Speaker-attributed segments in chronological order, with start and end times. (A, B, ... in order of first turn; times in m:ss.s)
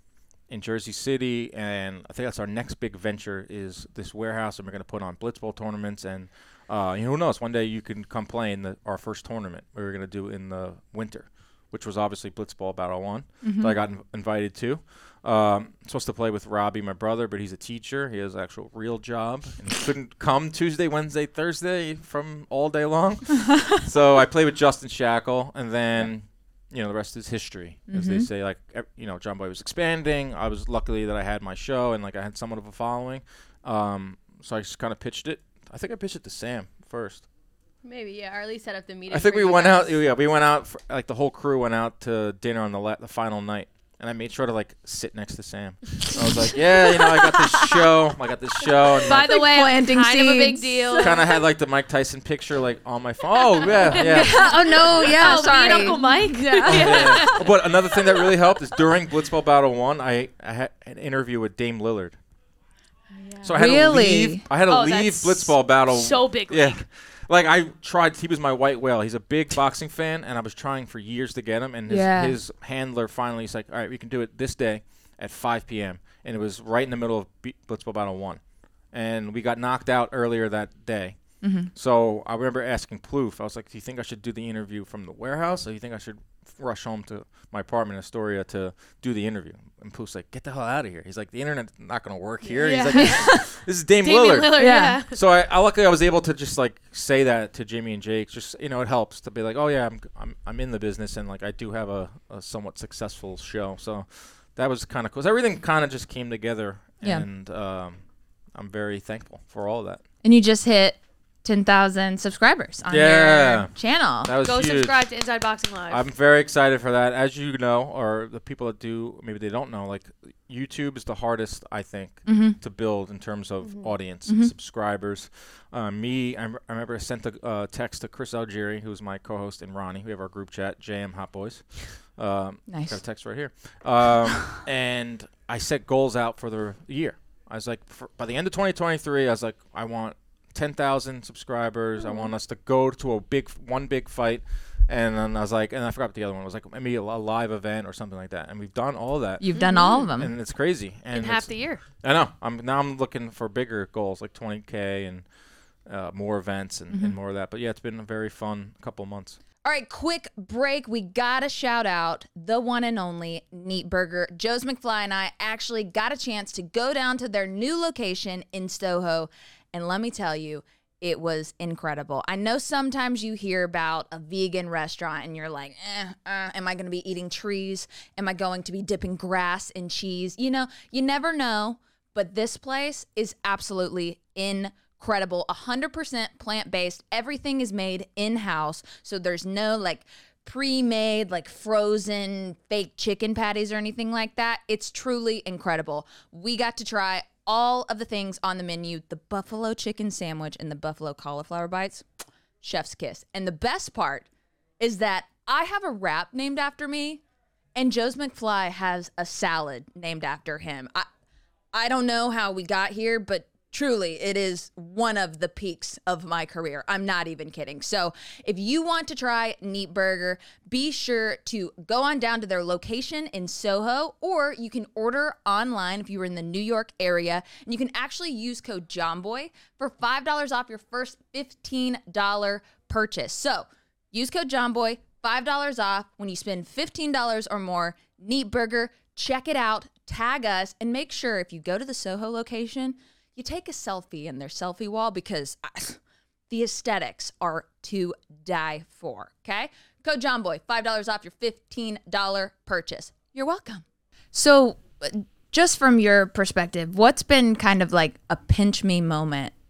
0:00.5-0:37.2 A
0:13.4-0:13.8 B
0:27.9-0:28.2 B
0:37.8-0:40.0 C
0:39.1-0:49.3 A
0:46.1-0:47.8 B
0:48.9-0:51.3 D
0:49.1-0:51.1 B
0:51.0-0:55.3 A
0:53.6-0:57.5 D
0:53.9-0:57.3 B
0:56.6-1:02.2 A
1:03.1-1:03.6 C
1:03.4-1:18.4 A
1:03.5-1:04.4 B
1:04.7-1:06.8 D
1:11.9-1:12.4 B
1:18.9-1:21.2 A
1:21.4-1:21.7 B
1:21.7-1:48.0 A
1:32.4-1:32.7 C
1:32.5-1:33.4 D
1:32.9-1:33.4 B
1:34.0-1:35.2 D
1:34.6-1:35.0 B
1:48.5-1:50.0 A
1:50.2-1:54.3 B
1:52.9-1:53.7 A
1:54.2-1:55.0 A
1:54.4-1:56.0 D
1:55.9-2:35.2 A
2:02.2-2:02.6 B
2:03.6-2:03.9 C
2:04.3-2:04.5 B
2:12.7-2:13.0 B
2:29.4-2:30.3 B
2:29.5-2:30.0 D
2:31.1-2:31.8 D
2:35.9-2:39.4 A
2:39.6-3:22.0 B
3:22.6-3:24.3 B
3:24.8-3:27.2 B
3:27.8-3:31.0 B
3:31.7-4:06.0 B
4:06.5-4:19.5 B